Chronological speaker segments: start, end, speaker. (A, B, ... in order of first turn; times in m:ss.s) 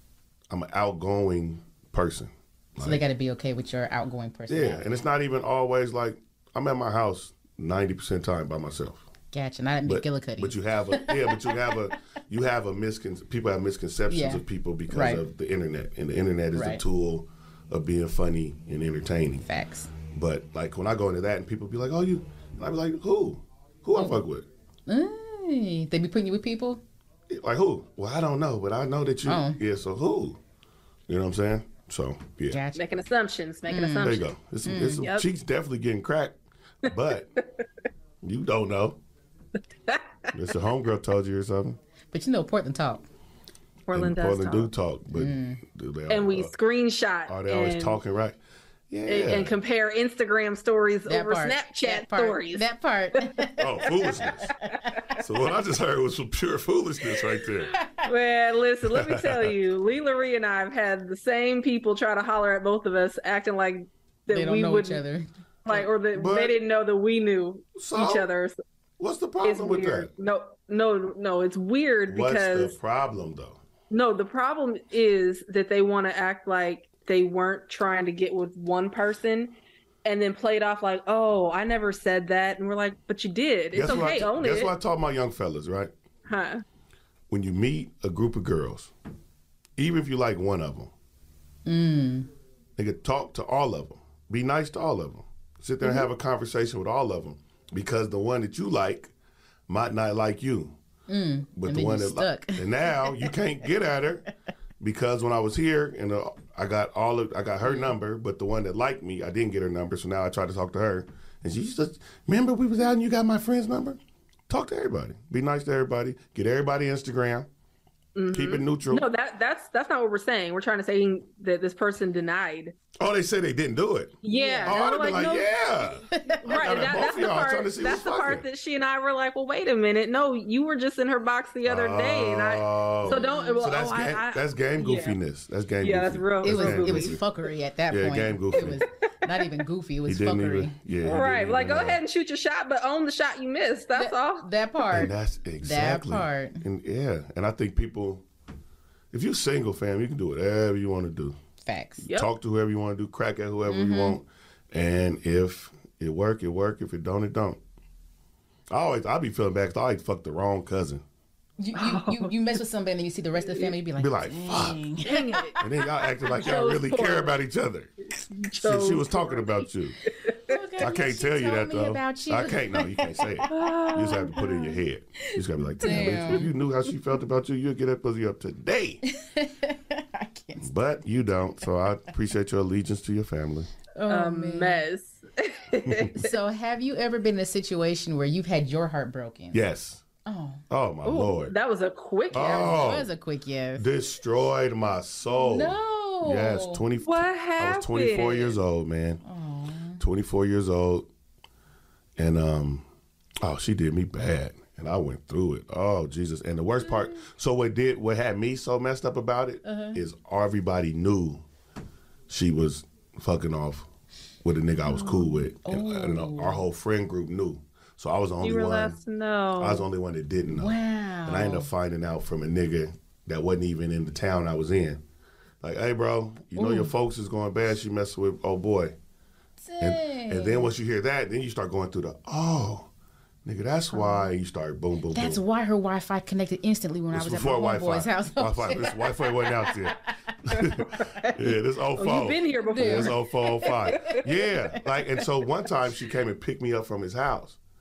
0:00.5-0:03.0 A
0:02.8-0:04.8 B
0:04.5-0:09.0 A
0:09.3-0:11.9 B
0:09.8-0:19.4 A
0:14.1-0:15.2 B
0:16.5-0:16.8 B
0:19.4-0:19.9 B
0:20.1-0:24.4 A
0:24.0-0:24.2 B
0:24.9-0:26.8 B
0:27.3-0:30.4 A
0:29.2-0:29.6 B
0:31.1-0:32.6 A
0:32.5-0:33.0 B
0:32.7-0:34.3 C
0:33.7-0:35.0 B
0:34.0-0:37.3 A
0:38.2-0:39.0 A
0:39.9-0:40.3 C
0:40.3-0:41.8 A
0:42.1-0:43.0 B
0:43.9-0:44.7 C
0:43.9-0:46.5 A
0:45.1-0:45.6 B
0:46.1-0:48.0 C
0:47.3-0:48.4 A
0:48.9-0:49.6 A
0:49.1-0:53.3 C
0:51.1-0:55.1 B
0:53.6-0:54.5 A
0:53.9-0:54.8 C
0:55.1-0:57.7 A
0:57.7-0:58.1 B
0:58.0-1:05.0 C
0:58.8-0:59.5 A
1:04.3-1:05.8 B
1:05.6-1:08.5 C
1:06.1-1:06.6 A
1:07.8-1:08.3 A
1:09.0-1:10.1 A
1:09.4-1:12.7 C
1:12.1-1:13.6 A
1:13.9-1:24.7 C
1:23.7-1:25.9 A
1:26.3-1:26.6 C
1:27.3-1:28.9 A
1:29.8-1:30.9 A
1:31.6-1:32.3 B
1:32.8-1:39.1 A
1:39.7-1:40.8 A
1:41.1-1:43.3 B
1:41.6-1:44.2 A
1:44.8-1:57.5 A
1:47.6-1:47.9 B
1:58.1-2:02.7 C
1:58.3-1:59.1 A
2:03.0-2:08.4 A
2:04.2-2:15.2 C
2:04.3-2:05.0 B
2:06.1-2:07.0 B
2:11.6-2:17.2 A
2:13.0-2:13.7 B
2:15.8-2:17.2 C
2:16.4-2:20.8 B
2:17.9-2:18.8 A
2:20.1-2:22.0 A
2:21.0-2:24.5 C
2:23.9-2:26.6 B
2:24.9-2:28.2 A
2:29.1-2:31.4 A
2:31.6-2:32.1 B
2:32.0-2:37.6 A
2:33.7-2:34.2 B
2:38.7-2:41.0 A
2:41.6-2:45.6 B
2:41.8-2:42.3 C
2:44.0-2:44.8 A
2:45.0-2:45.7 C
2:45.6-2:47.9 A
2:46.2-2:47.4 C
2:48.3-2:50.6 C
2:48.6-2:50.0 A
2:50.4-2:53.5 B
2:50.8-2:59.0 A
2:53.5-2:54.8 C
2:55.8-2:56.5 B
2:55.8-2:56.4 C
2:59.0-3:00.7 B
3:00.6-3:03.7 A
3:04.0-3:04.8 B
3:04.1-3:06.3 C
3:05.8-3:06.1 A
3:06.1-3:09.6 B
3:09.5-3:10.0 A
3:10.2-3:10.6 B
3:10.7-3:11.5 A
3:11.0-3:13.0 C
3:12.3-3:13.1 A
3:12.3-3:13.9 B
3:13.8-3:19.2 A
3:15.4-3:16.8 B
3:17.0-3:18.6 C
3:19.2-3:20.0 B
3:20.0-3:21.1 A
3:22.2-3:22.8 A
3:23.4-3:31.4 A
3:29.6-3:30.0 B
3:32.3-3:33.9 A
3:34.4-3:39.0 A
3:35.1-3:36.6 B
3:38.4-3:39.8 C
3:39.6-3:45.0 A
3:40.5-3:41.7 B
3:45.6-3:48.9 A
3:46.5-3:46.9 B
3:49.6-3:50.7 B
3:49.8-3:52.9 A
3:53.4-3:55.4 A
3:53.9-3:54.3 B
3:55.1-4:01.3 B
3:57.1-4:07.6 A
4:02.0-4:03.3 C
4:02.6-4:04.2 B
4:03.9-4:04.3 C